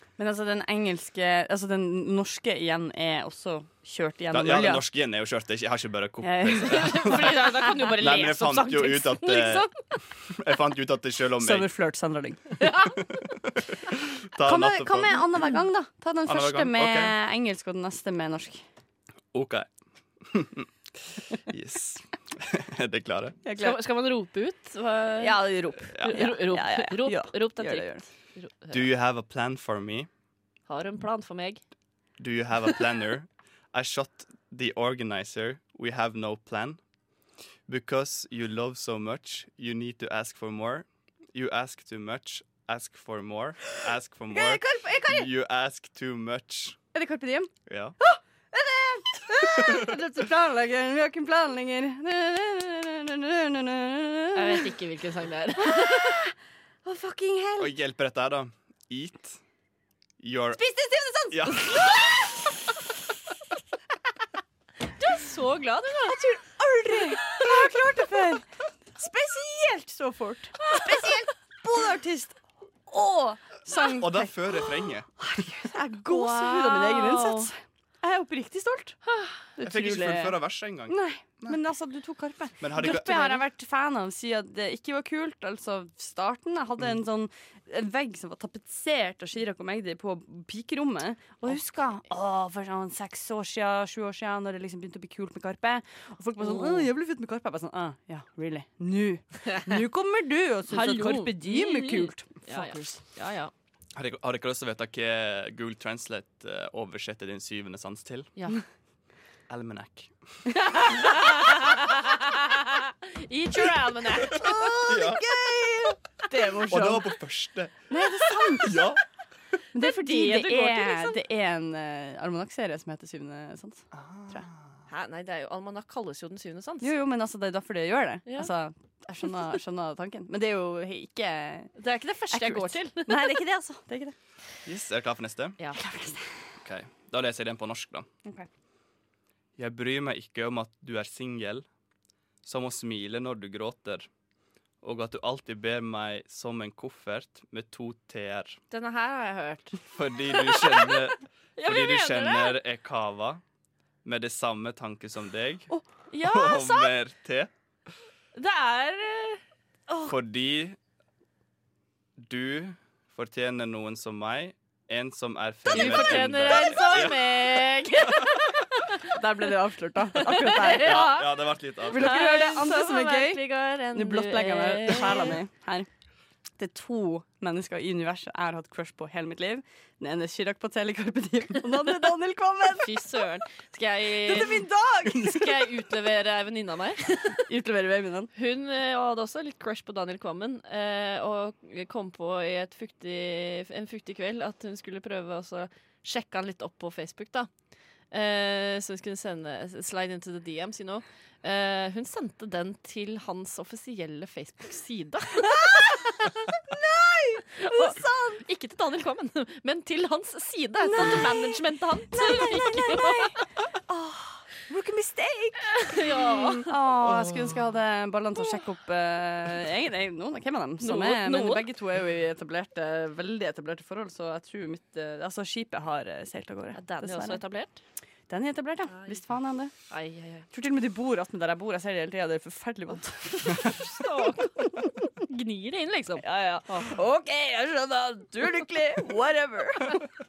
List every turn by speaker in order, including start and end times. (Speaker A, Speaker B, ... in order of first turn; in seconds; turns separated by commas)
Speaker A: 0.2-4.8, Speaker B: 4.3-7.4, Speaker A: 6.2-8.1, Speaker C: 6.6-9.8, Speaker B: 8.0-9.7, Speaker B: 10.3-11.7, Speaker A: 11.4-12.4, Speaker C: 12.6-13.0, Speaker B: 13.2-15.4, Speaker A: 14.4-18.6, Speaker B: 16.3-17.1, Speaker B: 19.3-19.7, Speaker B: 20.2-20.7, Speaker B: 21.5-23.4, Speaker A: 23.4-23.8, Speaker C: 23.6-25.4, Speaker A: 25.2-28.0, Speaker B: 25.9-26.2, Speaker C: 26.0-28.9, Speaker B: 28.7-30.1, Speaker C: 30.7-31.6, Speaker B: 32.2-36.8, Speaker B: 37.7-46.8, Speaker A: 44.3-45.3, Speaker A: 46.9-54.7, Speaker B: 47.7-48.0, Speaker B: 49.6-49.9, Speaker C: 54.4-56.2, Speaker A: 55.6-56.3, Speaker A: 56.9-57.8, Speaker B: 57.6-59.4, Speaker B: 60.2-60.6, Speaker A: 60.6-62.1, Speaker B: 61.3-62.0, Speaker C: 65.0-66.3, Speaker A: 66.0-68.5, Speaker C: 66.9-67.5, Speaker A: 69.0-72.4, Speaker C: 70.7-71.2, Speaker A: 72.9-79.0, Speaker B: 73.8-75.1, Speaker C: 76.1-77.5, Speaker C: 79.1-79.3, Speaker A: 79.6-103.0, Speaker B: 79.6-81.6, Speaker B: 82.6-83.4, Speaker C: 96.4-96.9, Speaker C: 100.7-103.5, Speaker B: 104.0-108.3, Speaker B: 109.5-110.1, Speaker C: 110.8-114.8, Speaker B: 114.3-116.0, Speaker A: 114.3-117.1, Speaker B: 116.7-117.7, Speaker A: 117.9-118.9, Speaker B: 118.5-119.0, Speaker A: 119.7-124.4, Speaker C: 119.8-121.2, Speaker B: 123.9-124.7, Speaker C: 124.9-126.9, Speaker A: 126.8-131.7, Speaker C: 131.8-133.3, Speaker A: 132.3-134.2, Speaker B: 134.7-135.6, Speaker A: 135.8-136.2, Speaker B: 136.6-138.1, Speaker B: 139.6-141.7, Speaker B: 142.4-144.1, Speaker B: 144.8-148.6, Speaker C: 148.7-152.6, Speaker B: 149.9-153.4, Speaker B: 154.0-155.7, Speaker C: 156.1-157.0, Speaker B: 156.2-157.5, Speaker C: 158.3-159.4, Speaker B: 160.1-160.8, Speaker B: 162.2-168.2, Speaker C: 165.7-169.0, Speaker A: 169.1-171.1, Speaker C: 170.2-171.3, Speaker B: 170.8-172.2, Speaker C: 171.9-175.4, Speaker A: 171.9-173.4, Speaker A: 173.9-175.9, Speaker A: 176.6-183.2, Speaker C: 182.7-187.4, Speaker A: 184.2-185.7, Speaker A: 187.5-188.3, Speaker C: 188.3-197.5, Speaker C: 198.1-206.5, Speaker A: 205.4-206.1, Speaker A: 206.7-208.4, Speaker C: 207.6-213.3, Speaker A: 210.8-213.4, Speaker A: 213.9-227.4, Speaker C: 215.7-216.7, Speaker C: 220.8-221.7, Speaker C: 226.8-227.8, Speaker A: 228.3-229.7, Speaker C: 229.9-230.5, Speaker A: 230.5-234.1, Speaker C: 233.4-237.0, Speaker A: 234.6-234.9, Speaker A: 236.2-240.1